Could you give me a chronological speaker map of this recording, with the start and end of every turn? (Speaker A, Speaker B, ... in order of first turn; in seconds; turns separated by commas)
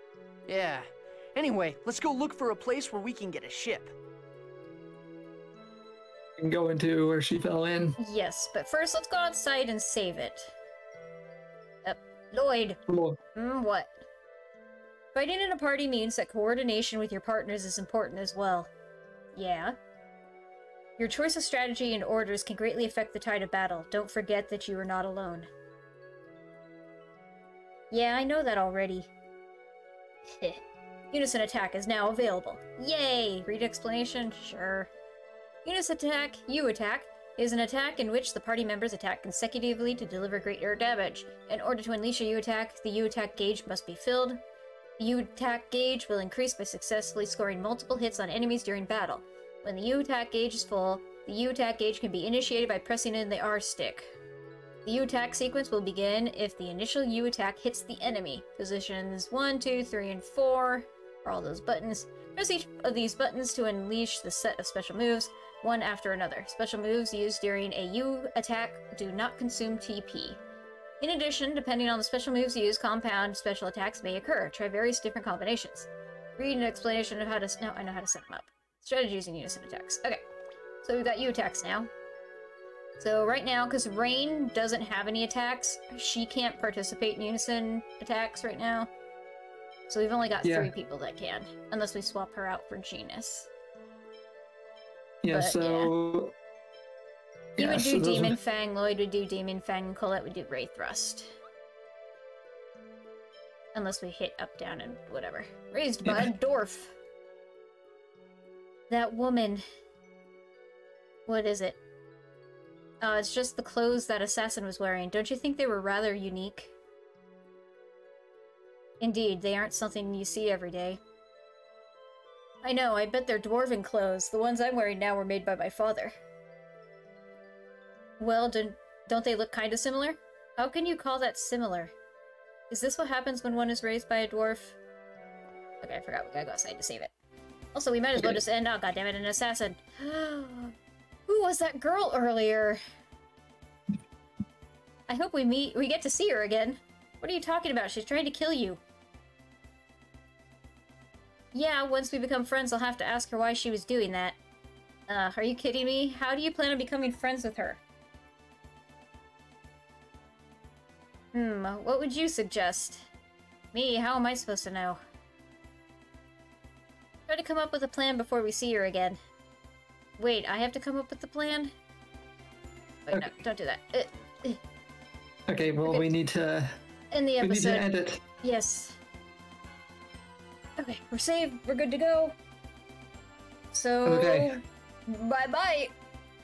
Speaker A: 0.5-3.9, Speaker B: 6.4-8.0, Speaker C: 8.0-10.5, Speaker C: 11.8-12.8, Speaker B: 12.9-13.2, Speaker C: 13.3-14.0, Speaker C: 15.1-18.7, Speaker C: 19.3-19.8, Speaker C: 21.0-25.5, Speaker C: 27.9-29.1, Speaker C: 30.4-34.9, Speaker C: 35.6-44.4, Speaker C: 45.0-54.1, Speaker C: 54.8-70.4, Speaker C: 71.0-80.2, Speaker C: 80.8-81.9, Speaker C: 83.0-88.9, Speaker C: 89.9-93.5, Speaker B: 90.4-90.7, Speaker B: 95.2-96.3, Speaker C: 95.3-95.9, Speaker B: 97.6-98.4, Speaker C: 97.6-101.3, Speaker C: 103.7-106.9, Speaker B: 106.0-106.3, Speaker C: 108.9-109.6, Speaker C: 111.3-111.8, Speaker C: 113.0-116.7, Speaker C: 119.0-121.0, Speaker C: 122.6-126.1, Speaker C: 128.2-131.9, Speaker C: 132.7-134.8, Speaker C: 135.8-137.1, Speaker C: 137.7-140.7, Speaker C: 141.3-142.8, Speaker C: 145.1-148.8, Speaker C: 151.5-154.4, Speaker C: 155.1-157.8, Speaker C: 161.3-163.1, Speaker C: 163.7-165.0, Speaker C: 167.3-169.2, Speaker C: 170.2-171.7, Speaker C: 173.1-174.6, Speaker B: 175.5-176.7, Speaker C: 175.8-176.1, Speaker C: 177.1-177.9, Speaker B: 177.4-178.2, Speaker C: 178.4-179.0, Speaker C: 180.8-182.3, Speaker C: 183.7-185.9, Speaker B: 184.0-184.6